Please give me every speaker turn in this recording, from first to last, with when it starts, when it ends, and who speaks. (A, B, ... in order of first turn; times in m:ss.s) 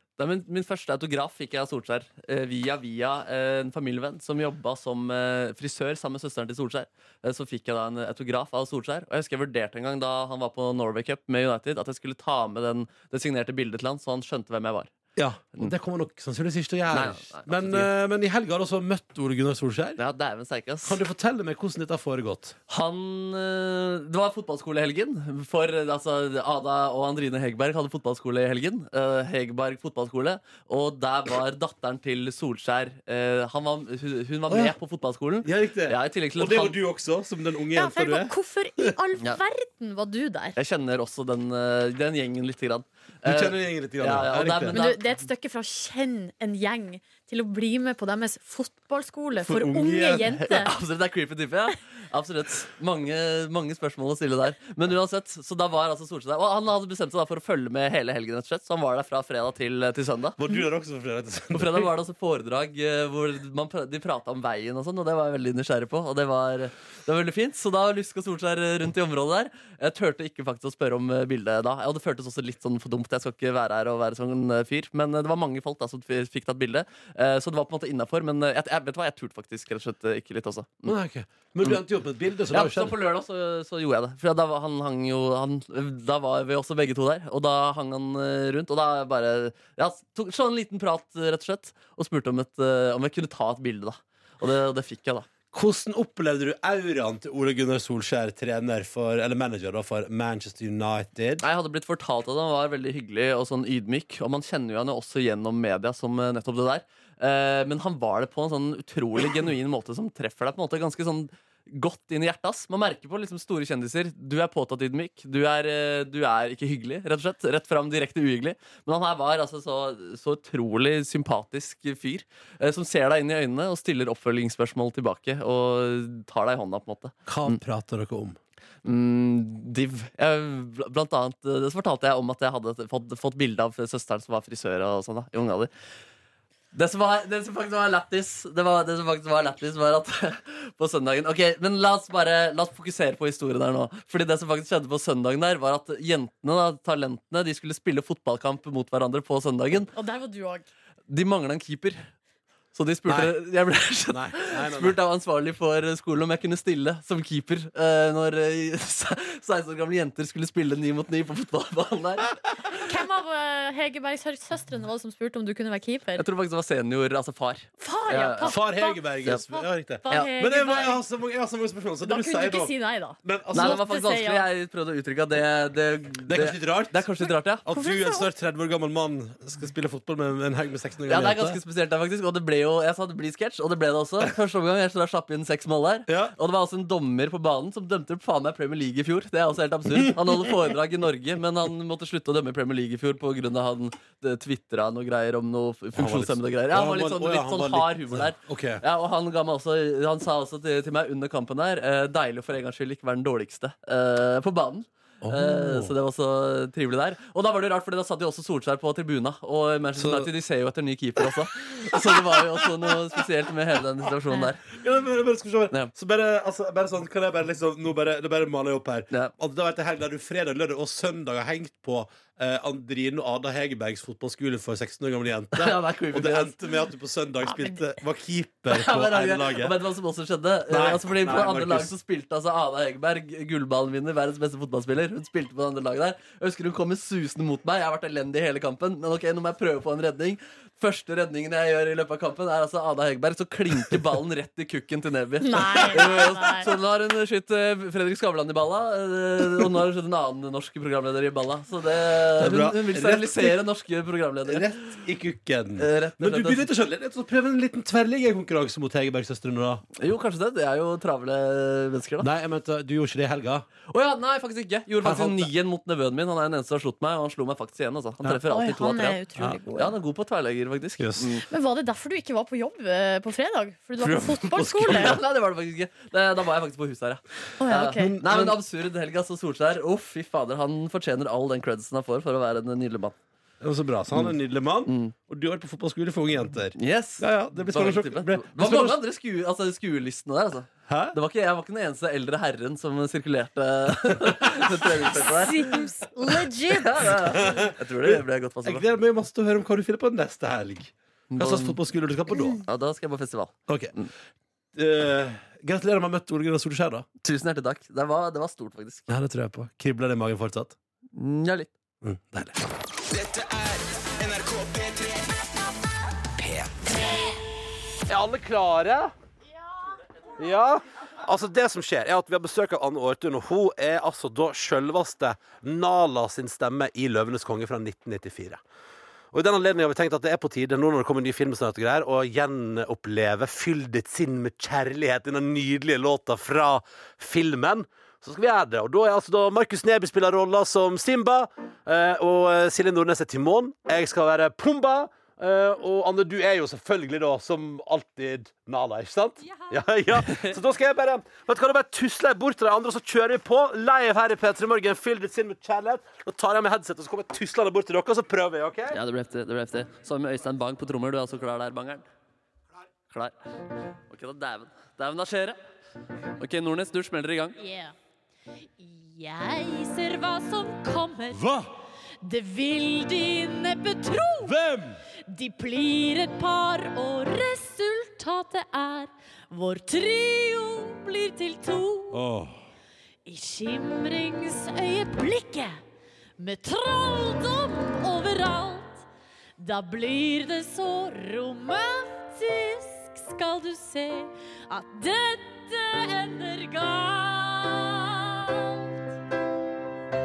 0:00.2-0:14.9 A
0:15.2-0:20.0 B
0:16.9-0:17.9 A
0:20.0-0:21.0 A
0:20.8-0:22.6 B
0:22.7-0:36.8 A
0:35.4-0:38.9 B
0:37.7-0:40.5 C
0:40.6-0:45.2 A
0:43.2-0:44.8 B
0:44.7-0:50.7 C
0:49.4-0:50.3 B
0:50.4-1:00.4 A
1:00.4-1:01.9 B
1:01.5-1:20.9 A
1:20.8-1:22.9 B
1:22.5-1:35.3 A
1:35.5-1:41.4 B
1:41.4-2:07.6 A
2:07.2-2:08.4 B
2:08.8-2:15.7 A
2:16.7-2:29.9 A
2:29.9-2:30.6 C
2:31.1-2:32.1 A
2:32.7-2:42.3 A
2:33.1-2:33.4 B
2:34.1-2:35.0 B
2:42.7-2:46.2 C
2:46.2-2:48.5 A
2:47.8-2:51.0 C
2:48.4-2:52.7 B
2:52.0-2:54.5 C
2:53.2-2:53.8 B
2:53.5-2:57.6 A
2:56.3-2:57.1 B
2:57.6-3:01.6 B
2:57.7-2:58.3 C
3:01.1-3:34.6 A
3:06.1-3:06.3 B
3:15.9-3:18.8 B
3:25.2-3:25.9 B
3:30.0-3:30.3 B
3:31.8-3:33.0 B
3:34.7-3:49.8 B
3:45.5-3:46.5 A
3:47.4-3:47.9 C
3:48.7-4:14.8 A
3:50.7-3:51.9 B
4:05.4-4:06.7 C
4:12.4-4:13.6 B
4:14.5-4:19.8 B
4:15.8-4:16.7 A
4:20.0-4:22.3 A
4:22.2-4:23.6 B
4:23.9-4:29.2 A
4:25.0-4:25.5 B
4:28.5-4:29.9 C
4:29.7-4:31.4 A
4:31.0-4:31.4 B
4:31.5-4:35.2 C
4:34.0-4:35.2 B
4:34.9-4:43.2 A
4:37.6-4:38.2 C
4:37.9-4:38.6 B
4:43.6-4:49.0 B
4:44.8-4:45.1 A
4:46.8-4:55.7 A
4:50.9-4:51.2 B
4:55.1-4:57.1 C
4:56.7-4:58.8 A
4:57.2-5:02.6 B
5:01.3-5:01.8 A
5:02.6-5:04.1 A
5:03.7-5:04.0 B
5:04.7-5:07.0 B
5:07.2-5:09.1 A
5:09.1-5:10.8 B
5:11.1-5:11.7 A
5:12.0-5:12.6 B
5:13.0-5:15.7 D
5:16.3-5:17.4 D
5:18.1-5:19.1 B
5:20.4-5:28.6 B
5:29.3-5:59.0 B
5:50.2-5:50.5 A
5:58.9-6:02.0 A
6:03.1-6:03.3 A
6:04.1-6:05.6 A
6:06.4-6:07.6 A
6:07.6-6:07.9 C
6:08.8-6:11.4 C
6:11.3-6:11.7 B
6:12.2-6:14.6 C
6:14.4-6:15.0 B
6:15.3-6:22.2 C
6:22.1-6:22.6 B
6:23.2-6:25.8 C
6:26.4-6:29.0 C
6:29.6-6:38.9 C